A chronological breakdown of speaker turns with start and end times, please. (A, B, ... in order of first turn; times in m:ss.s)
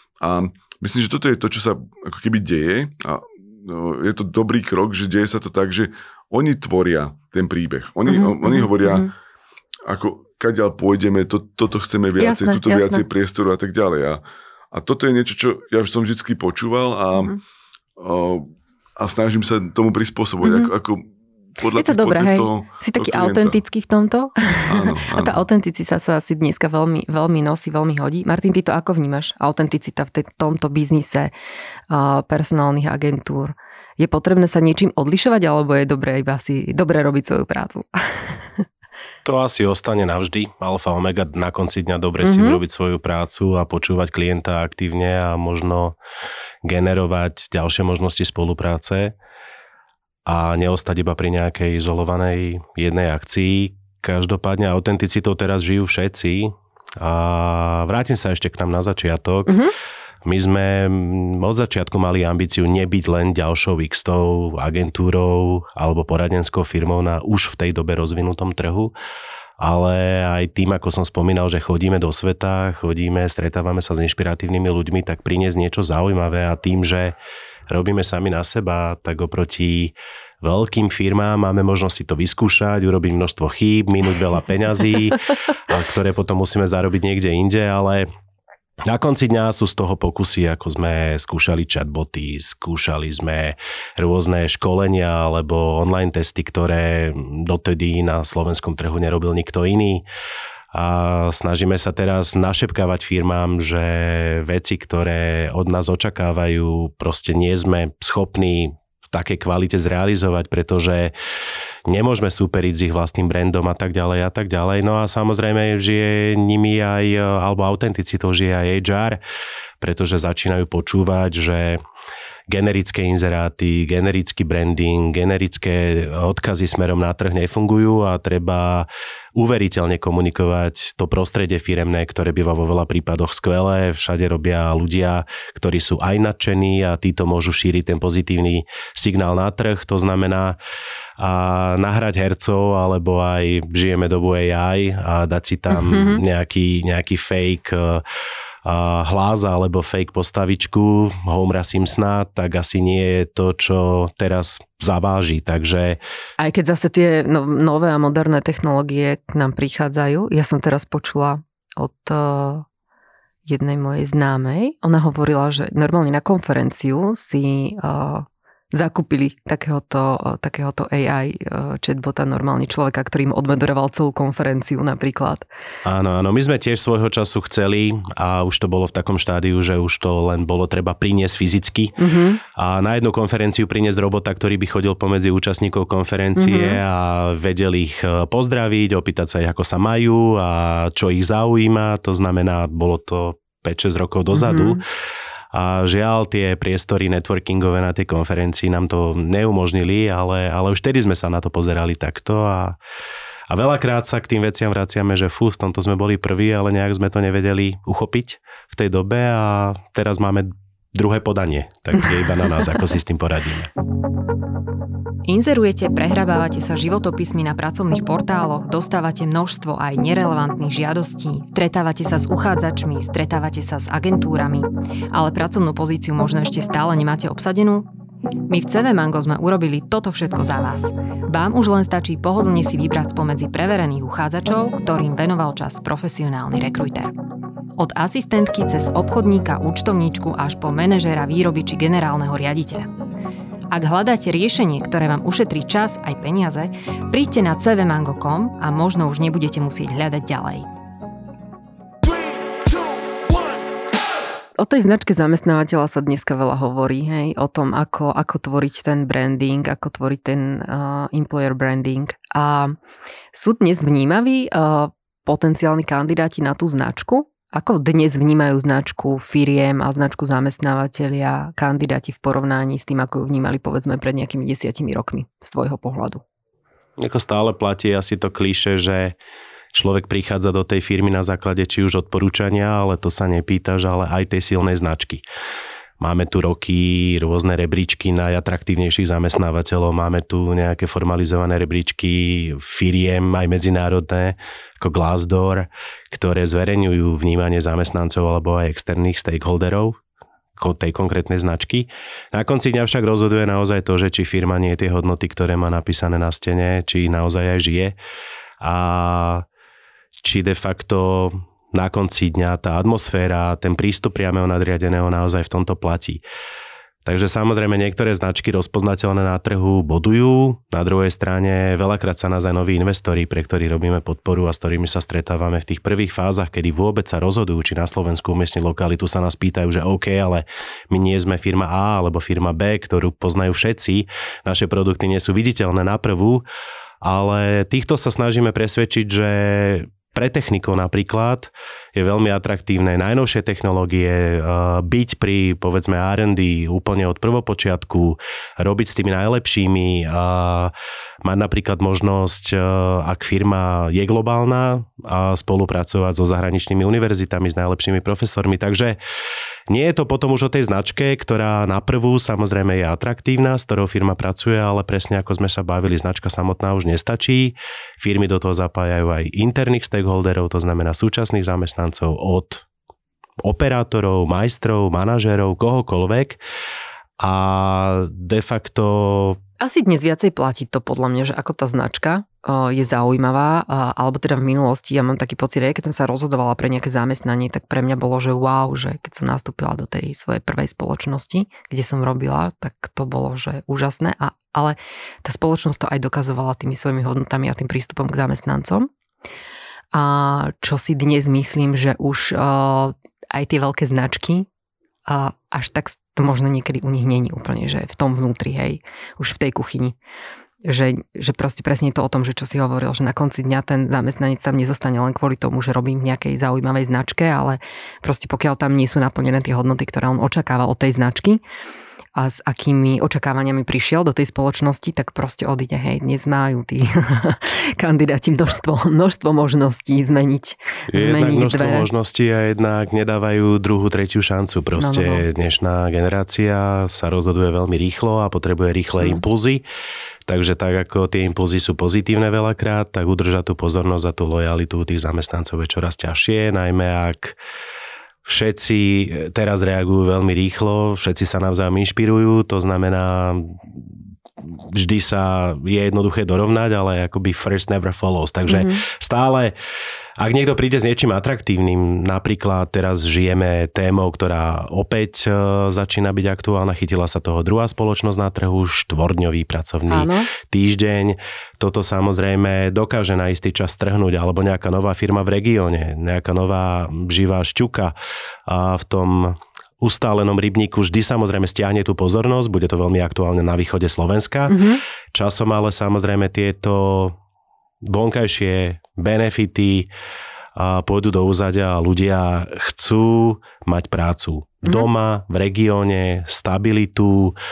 0:00.2-0:09.1 A
0:08.1-0:09.1 B
0:09.8-0:17.3 A
0:12.2-0:13.0 B
0:18.0-0:23.6 A
0:20.4-0:20.7 B
0:21.7-0:31.3 B
0:24.6-0:25.4 A
0:31.9-0:38.6 B
0:39.2-0:46.0 C
0:42.2-0:42.6 B
0:46.6-0:49.1 C
0:50.2-0:59.6 C
0:59.5-0:59.7 B
1:00.2-1:08.9 C
1:09.6-1:17.1 C
1:17.7-1:28.1 C
1:28.8-1:40.0 C
1:40.7-1:51.1 C
1:51.9-1:59.2 C
1:59.8-2:01.8 C
2:02.5-2:20.6 C
2:21.2-2:28.0 C
2:25.8-2:26.2 B
2:28.6-2:36.0 C
2:36.4-2:42.6 B
2:43.4-2:55.4 B
2:55.8-3:01.9 C
3:02.0-3:02.4 B
3:02.5-3:14.8 C
3:06.4-3:06.8 B
3:14.3-3:14.8 B
3:15.5-3:22.8 C
3:23.5-3:33.7 C
3:35.2-3:47.9 B
3:48.5-3:57.1 B
3:57.8-4:02.9 B
4:03.7-4:10.7 B
4:14.6-4:22.8 B
4:23.3-4:36.2 B
4:37.0-4:39.1 C
4:39.7-4:45.2 C
4:46.0-5:00.0 C
5:00.6-5:08.0 C
5:08.6-5:09.4 C
5:10.2-5:16.2 C
5:17.0-5:36.4 C
5:37.0-5:50.7 C
5:51.2-5:59.0 C
5:59.7-6:12.7 C
6:13.4-6:16.4 C
6:17.2-6:19.4 C
6:19.6-6:38.9 B
6:39.9-6:44.5 B
6:45.1-6:49.9 B
6:50.6-7:01.4 B
7:02.1-7:11.9 B
7:10.9-7:19.6 C
7:14.8-7:15.2 B
7:20.3-7:27.4 C
7:28.2-7:33.6 C
7:34.4-7:39.5 C
7:38.5-7:38.8 B
7:40.2-7:57.9 C
7:49.9-7:50.3 B
7:58.5-8:04.6 C
8:04.5-8:04.8 B
8:05.1-8:07.2 C
8:07.8-8:09.9 C
8:10.6-8:17.4 C